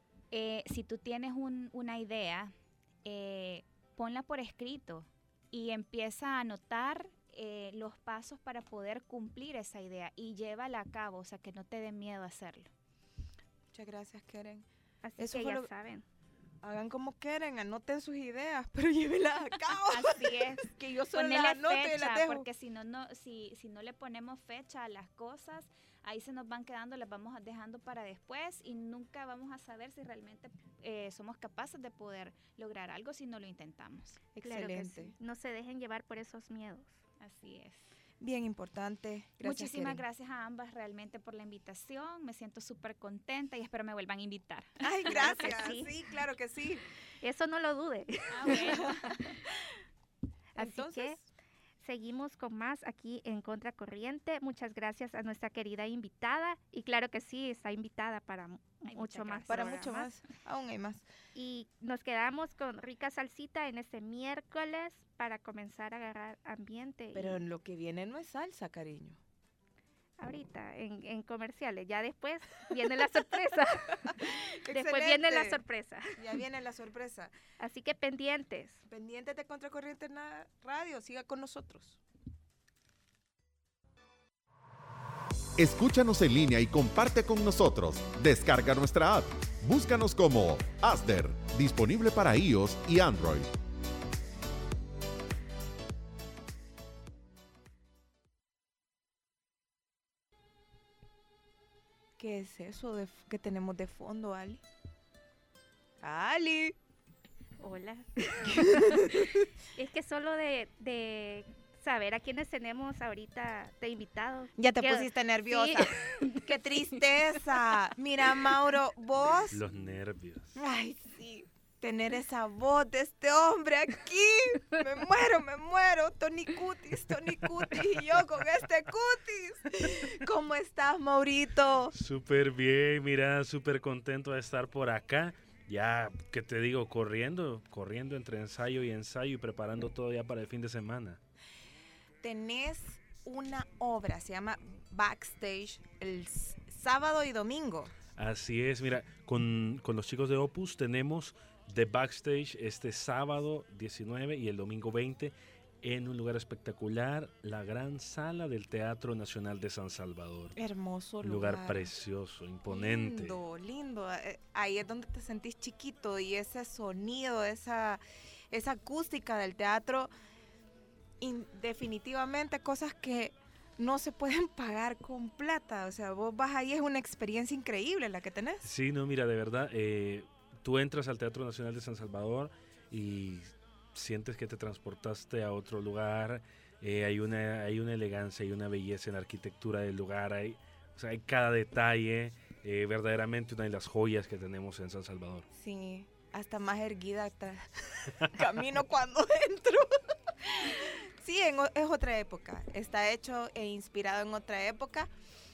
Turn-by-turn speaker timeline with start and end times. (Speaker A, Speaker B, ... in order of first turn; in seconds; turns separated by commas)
Speaker A: 0.3-2.5, Speaker A: 3.0-12.7, Speaker B: 13.7-14.7, Speaker C: 15.0-16.0, Speaker B: 15.2-15.7, Speaker B: 16.6-22.4, Speaker A: 19.9-34.2, Speaker B: 34.3-35.1, Speaker C: 34.4-36.9, Speaker A: 37.2-37.9, Speaker B: 38.2-40.0, Speaker A: 39.4-45.9, Speaker B: 44.8-46.8, Speaker C: 45.1-45.7, Speaker C: 47.2-49.2, Speaker A: 48.3-49.1, Speaker B: 48.5-48.8, Speaker C: 50.5-51.2, Speaker B: 50.6-51.2, Speaker C: 51.8-60.1, Speaker A: 58.9-59.9, Speaker B: 59.5-61.0, Speaker C: 61.3-67.4, Speaker B: 67.1-69.2, Speaker C: 70.2-76.2, Speaker B: 74.1-75.6, Speaker B: 76.2-77.3, Speaker C: 77.6-78.8, Speaker B: 78.9-82.0, Speaker D: 85.6-93.5, Speaker B: 102.2-104.6, Speaker B: 106.0-106.8, Speaker C: 107.6-117.0, Speaker B: 108.3-109.5, Speaker B: 114.6-119.6, Speaker E: 119.5-120.6, Speaker B: 120.5-131.9, Speaker E: 131.9-141.2, Speaker B: 142.2-147.9, Speaker E: 148.1-160.5, Speaker B: 160.5-161.9, Speaker E: 161.2-163.4, Speaker B: 162.7-170.1, Speaker B: 171.2-178.7, Speaker E: 178.6-195.5, Speaker B: 195.5-205.1